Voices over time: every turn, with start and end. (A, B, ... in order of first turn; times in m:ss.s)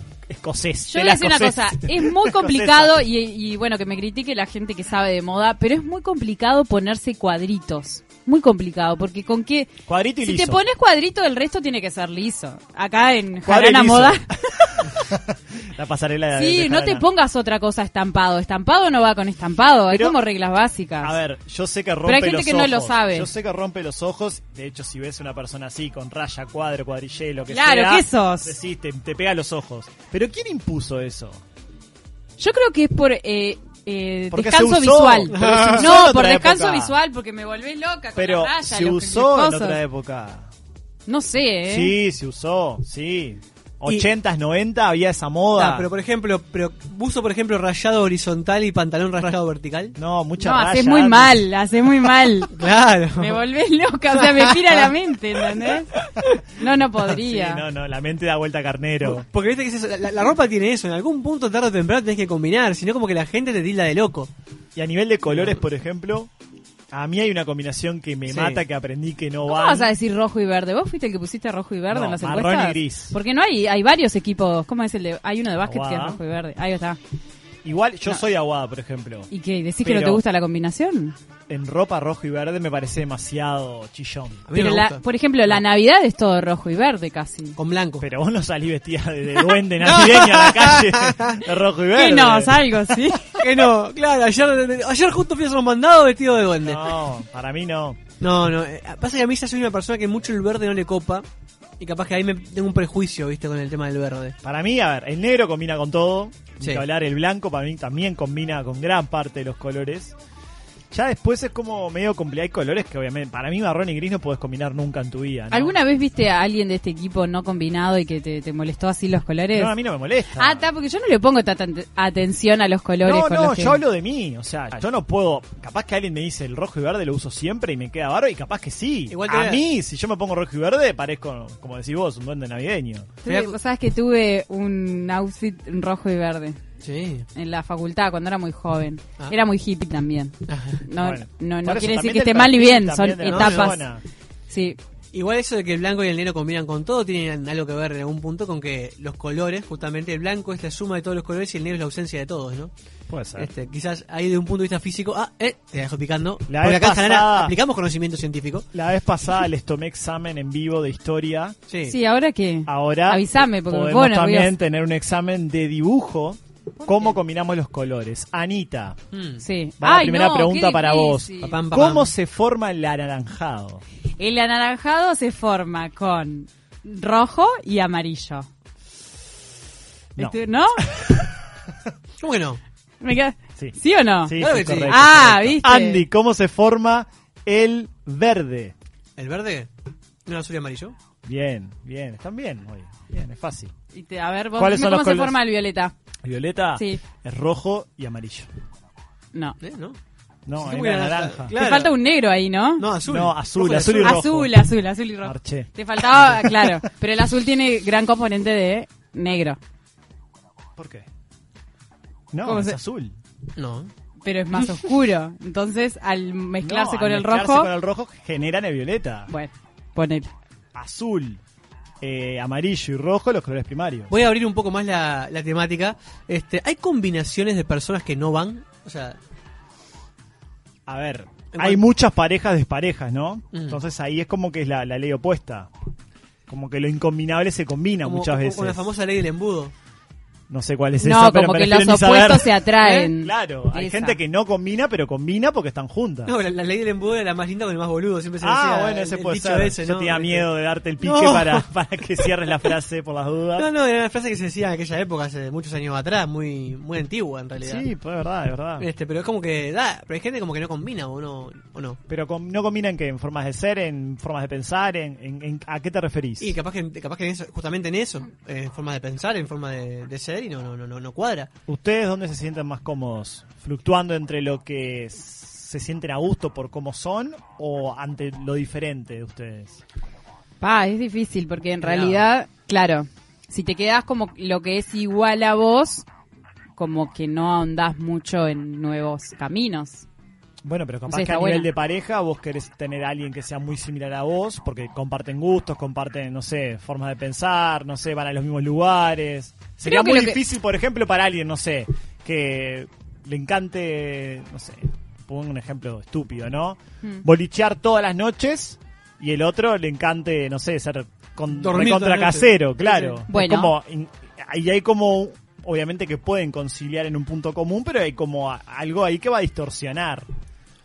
0:00.3-0:03.0 A
0:00.9-0:14.3 B
0:09.9-0:10.6 A
0:13.4-0:17.0 A
0:16.3-0:21.1 B
0:19.9-0:20.2 A
0:21.0-0:31.4 A
0:22.0-0:23.3 B
0:27.5-0:28.5 B
0:32.4-0:39.8 B
0:34.3-0:36.9 A
0:35.3-0:35.9 C
0:38.2-0:40.5 A
0:41.1-0:41.9 B
0:41.7-0:45.9 A
0:45.6-0:49.9 C
0:50.0-0:51.5 A
0:50.4-0:52.5 B
0:52.5-0:53.4 C
0:53.2-0:55.9 B
0:54.1-0:54.9 C
0:56.0-0:56.4 C
0:56.6-0:57.6 B
0:57.0-0:59.2 A
0:59.0-1:04.3 C
1:04.7-1:06.3 A
1:06.9-1:09.9 A
1:08.3-1:08.6 C
1:09.4-1:17.0 B
1:11.9-1:13.2 A
1:15.6-1:16.2 A
1:17.6-1:19.3 A
1:19.3-1:21.2 B
1:19.8-1:20.2 A
1:21.5-1:24.4 A
1:24.5-1:25.5 C
1:24.5-1:27.6 B
1:27.6-1:28.0 C
1:28.0-1:33.4 A
1:29.7-1:31.4 C
1:32.0-1:33.3 B
1:33.4-1:36.9 C
1:36.6-1:38.0 A
1:38.2-1:41.2 C
1:41.8-1:44.4 C
1:44.4-1:50.2 A
1:50.9-1:55.8 A
1:55.5-1:59.7 B
1:59.5-2:00.6 A
2:00.4-2:03.8 B
2:03.0-2:13.1 A
2:09.1-2:09.6 C
2:13.2-2:16.6 B
2:13.2-2:13.6 C
2:16.8-2:17.3 C
2:17.3-2:23.8 B
2:20.5-2:20.8 C
2:21.0-2:24.0 A
2:23.3-2:23.7 C
2:24.5-2:24.8 B
2:25.1-2:32.7 C
2:33.1-2:33.5 A
2:33.4-2:38.6 C
2:36.5-2:37.5 A
2:38.7-2:41.6 A
2:41.7-2:41.9 C
2:41.9-2:44.5 B
2:42.7-2:49.0 A
2:46.8-2:47.1 B
2:49.1-2:49.4 C
2:49.4-2:51.6 B
2:49.8-2:53.8 A
2:51.4-2:52.1 C
2:54.2-2:58.5 B
3:00.2-3:00.9 B
3:00.2-3:01.3 A
3:02.2-3:02.6 C
3:03.0-3:06.0 B
3:03.6-3:08.7 A
3:04.4-3:04.9 C
3:09.2-3:09.7 C
3:10.2-3:10.9 C
3:11.2-3:13.7 A
3:13.9-3:15.9 B
3:14.6-3:15.4 A
3:16.2-3:18.5 A
3:16.7-3:17.0 B
3:19.6-3:20.0 C
3:20.4-3:21.5 A
3:20.6-3:22.0 C
3:21.5-3:22.8 B
3:22.8-3:24.2 C
3:23.0-3:24.7 A
3:24.0-3:29.6 B
3:25.2-3:26.8 A
3:30.8-3:31.1 A
3:32.3-3:33.2 A
3:32.4-3:32.8 B
3:33.6-3:33.9 C
3:34.2-3:37.7 B
3:36.6-3:39.3 A
3:39.3-3:40.3 B
3:40.7-3:41.4 A
3:42.0-3:44.1 A
3:44.1-3:49.2 C
3:50.9-3:55.7 A
3:51.5-3:51.8 C
3:53.5-3:53.8 C
3:56.5-3:58.9 A
3:58.0-3:59.7 C
4:00.5-4:06.3 A
4:01.0-4:04.2 B
4:06.3-4:10.5 C
4:08.4-4:13.7 A
4:11.0-4:11.6 C
4:12.2-4:12.7 C
4:13.6-4:17.9 C
4:17.6-4:18.9 A
4:18.8-4:22.0 C
4:22.1-4:26.5 A
4:26.4-4:31.5 C
4:31.7-4:39.8 A
4:40.6-4:46.0 B
4:41.8-4:42.2 C
4:46.8-4:50.0 B
4:50.6-5:20.3 A
4:51.1-4:51.7 B
4:59.8-5:00.4 B
5:11.5-5:12.5 C
5:12.8-5:13.7 B